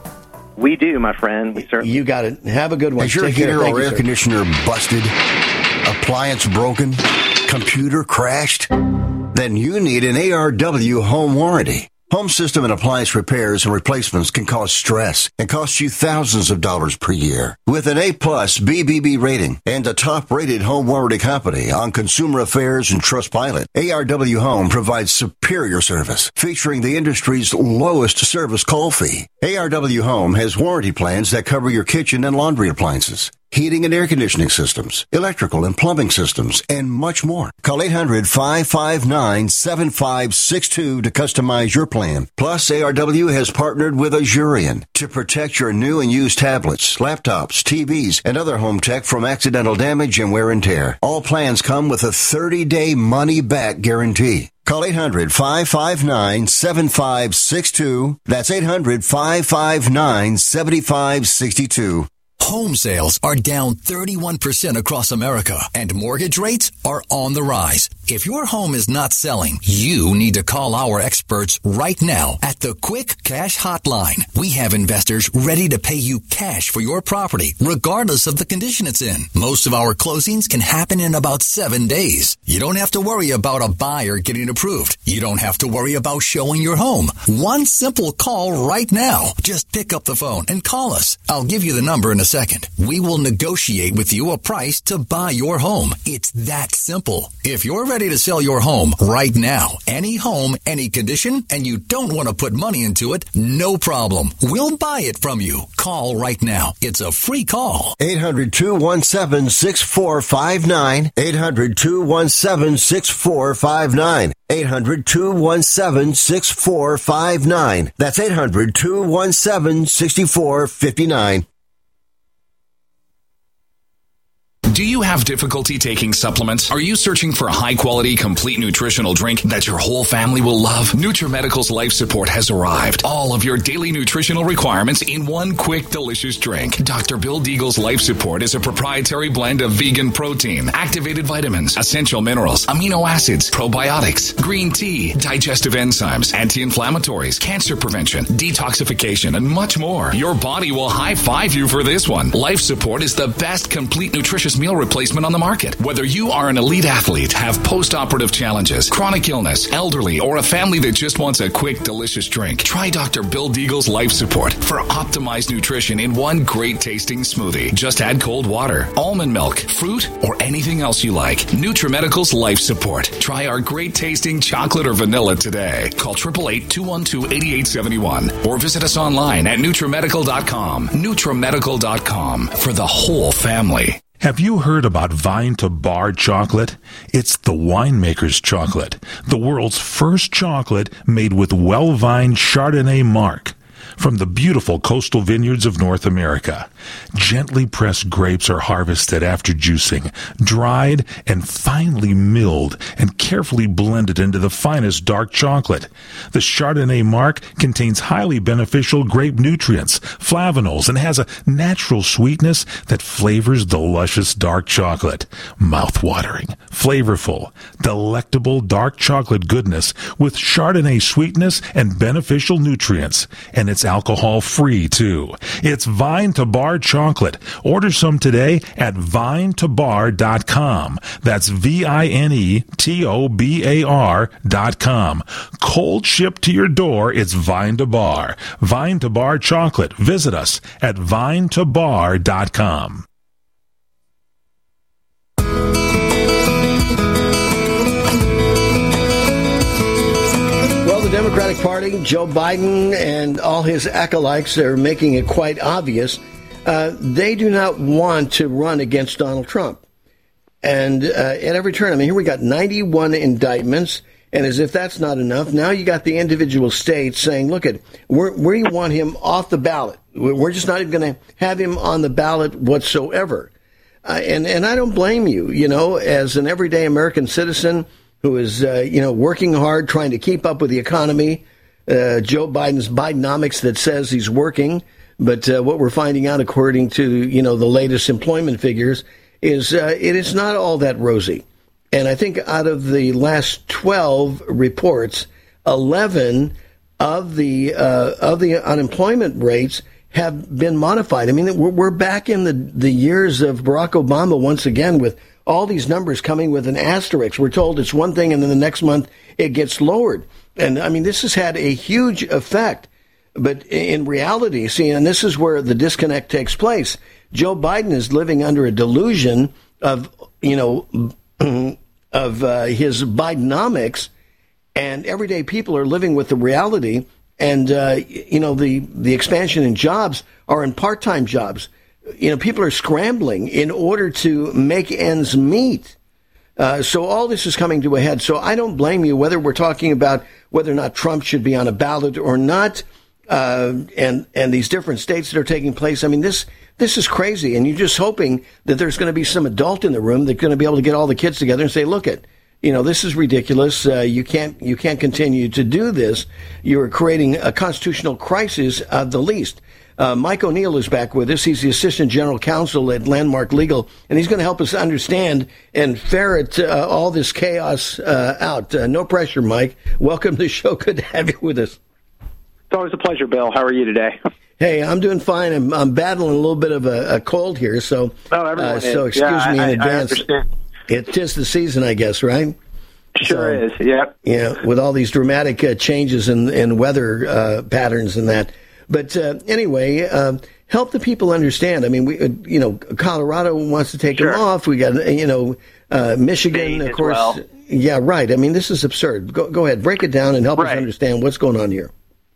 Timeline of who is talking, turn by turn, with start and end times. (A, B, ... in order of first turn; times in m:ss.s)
0:00.6-0:01.9 A
0:01.6-0:04.1 B
0:03.0-0:05.2 C
0:05.8-0:08.7 C
0:09.3-1:02.1 C
1:02.4-1:47.9 D
1:48.0-2:01.4 C
2:04.7-3:04.0 E
3:04.2-4:03.0 F
4:10.8-4:19.8 B
4:20.6-4:33.5 B
4:34.0-5:24.1 B
5:24.8-5:35.9 B
5:36.6-6:11.8 B
6:12.7-6:14.2 G
6:14.6-6:20.3 B
6:18.3-6:20.4 G
6:20.9-6:22.6 B
6:23.2-6:24.1 G
6:23.2-6:23.6 B
6:24.2-6:41.9 B
6:34.1-6:34.4 G
6:36.5-6:37.2 A
6:37.0-6:37.3 G
6:40.5-6:40.9 G